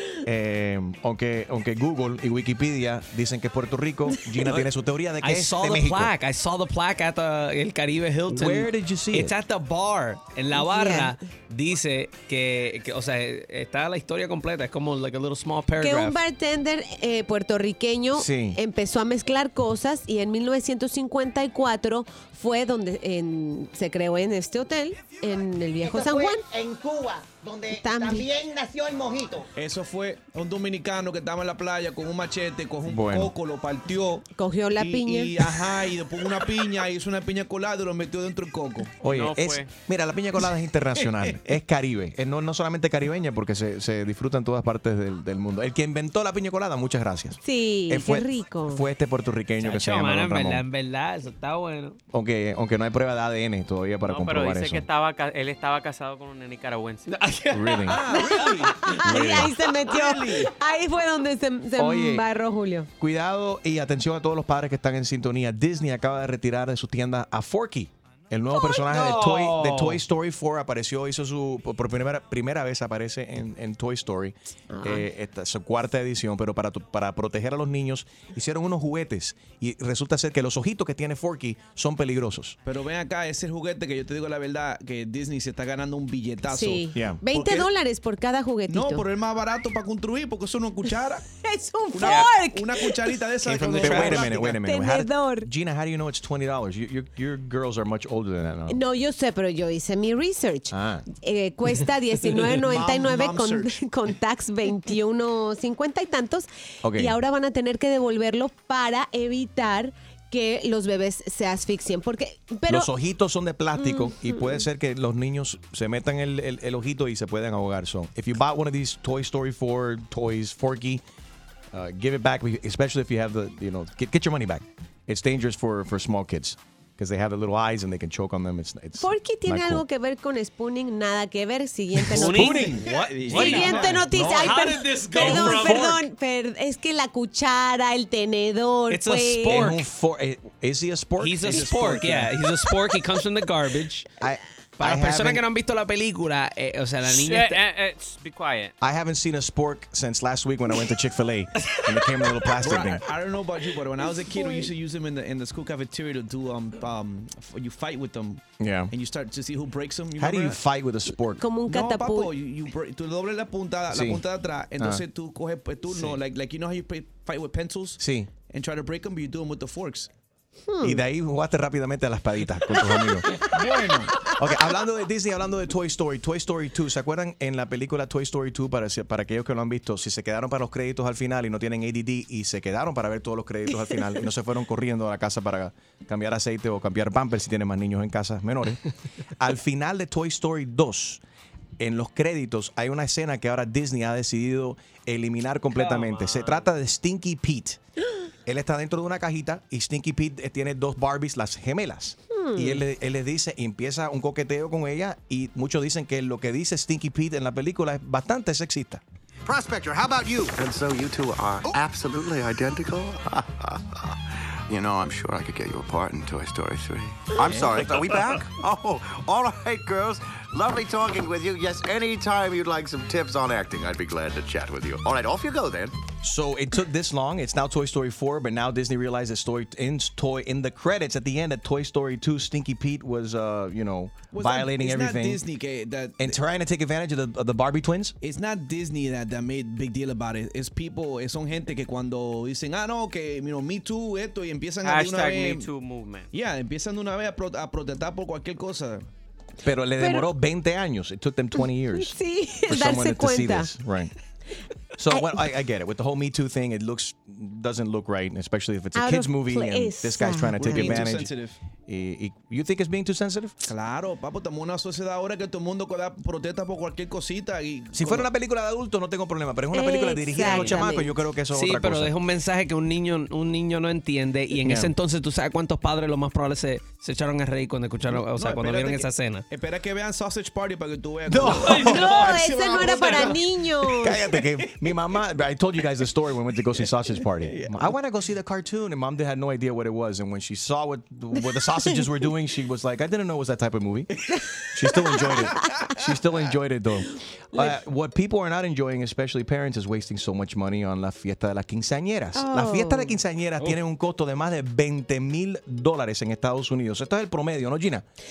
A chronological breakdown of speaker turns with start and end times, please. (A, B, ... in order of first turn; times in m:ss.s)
0:00.2-0:06.1 A
0:05.2-0:16.2 B
0:08.3-0:09.4 A
0:10.5-0:11.2 C
0:15.8-0:26.5 C
0:18.1-0:18.6 A
0:26.0-0:29.5 D
0:27.7-0:28.3 C
0:29.6-0:39.0 E
0:32.8-0:33.3 A
0:34.4-0:35.4 C
0:39.0-0:50.6 A
0:39.0-0:39.7 F
0:47.4-0:48.8 C
0:49.6-0:52.0 B
0:52.1-0:54.8 A
0:54.0-0:57.1 F
0:57.1-0:59.0 B
0:57.5-0:58.0 A
0:57.9-0:58.9 E
0:58.1-1:02.9 C
0:59.0-0:59.6 A
0:59.9-1:00.5 E
1:01.8-1:02.2 A
1:03.0-1:22.6 A
1:08.6-1:10.0 B
1:14.7-1:15.0 C
1:22.6-1:27.7 E
1:26.5-1:29.0 C
1:26.9-1:27.2 A
1:28.7-1:31.2 E
1:31.4-1:33.1 C
1:31.9-1:34.6 E
1:32.0-1:32.3 F
1:33.4-1:38.8 A
1:33.6-1:35.5 C
1:38.7-1:52.9 C
1:40.7-1:41.0 A
1:42.7-1:43.8 E
1:46.8-1:47.2 A
1:52.7-2:01.0 A
1:53.8-1:54.7 C
2:01.7-2:09.8 A
2:09.0-2:12.8 C
2:12.1-2:16.1 B
2:12.1-2:12.8 A
2:12.8-2:14.7 E
2:13.3-2:19.7 C
2:15.2-2:15.7 E
2:18.9-2:19.8 B
2:19.5-2:22.3 A
2:21.2-2:24.1 B
2:21.5-2:22.1 E
2:24.2-2:25.4 A
2:24.8-2:27.6 B
2:27.0-2:28.7 F
2:28.8-2:33.1 A
2:31.6-2:32.5 B
2:32.6-2:40.6 E
2:34.2-2:34.7 C
2:38.6-2:38.9 A
2:40.2-2:41.4 A
2:41.4-2:42.3 C
2:41.7-2:50.1 E
2:43.9-2:44.2 A
2:48.0-2:48.3 A
2:50.7-2:51.0 C
2:50.8-2:53.3 A
2:53.5-2:54.3 E
2:54.4-3:08.8 A
3:09.4-3:11.2 A
3:11.8-3:17.8 A
3:15.8-3:16.6 B
3:18.5-3:29.0 A
3:22.3-3:22.8 C
3:29.5-3:33.8 G
3:34.7-3:45.9 G
3:37.4-3:38.0 E
3:46.2-3:55.4 A
3:54.3-3:56.4 E
3:56.2-3:58.2 A
3:58.2-4:05.7 E
4:04.8-4:06.3 F
4:06.3-4:09.0 E
4:09.6-4:14.1 A
4:10.0-4:10.3 C
4:11.6-4:13.7 C
4:15.0-4:21.3 A
4:15.1-4:15.4 C
4:19.0-4:21.0 C
4:20.6-4:21.6 E
4:21.9-4:23.6 A
4:23.6-4:28.3 E
4:27.9-4:32.1 A
4:29.7-4:31.1 C
4:30.4-4:30.8 B
4:31.5-4:39.4 B
4:34.6-4:34.9 A
4:38.1-4:43.4 E
4:41.3-4:42.1 A
4:41.6-4:42.3 B
4:41.7-4:44.2 C
4:43.8-4:54.1 A
4:47.4-4:47.9 E
4:54.7-5:08.0 A
4:55.0-4:55.7 C
5:02.4-5:03.2 C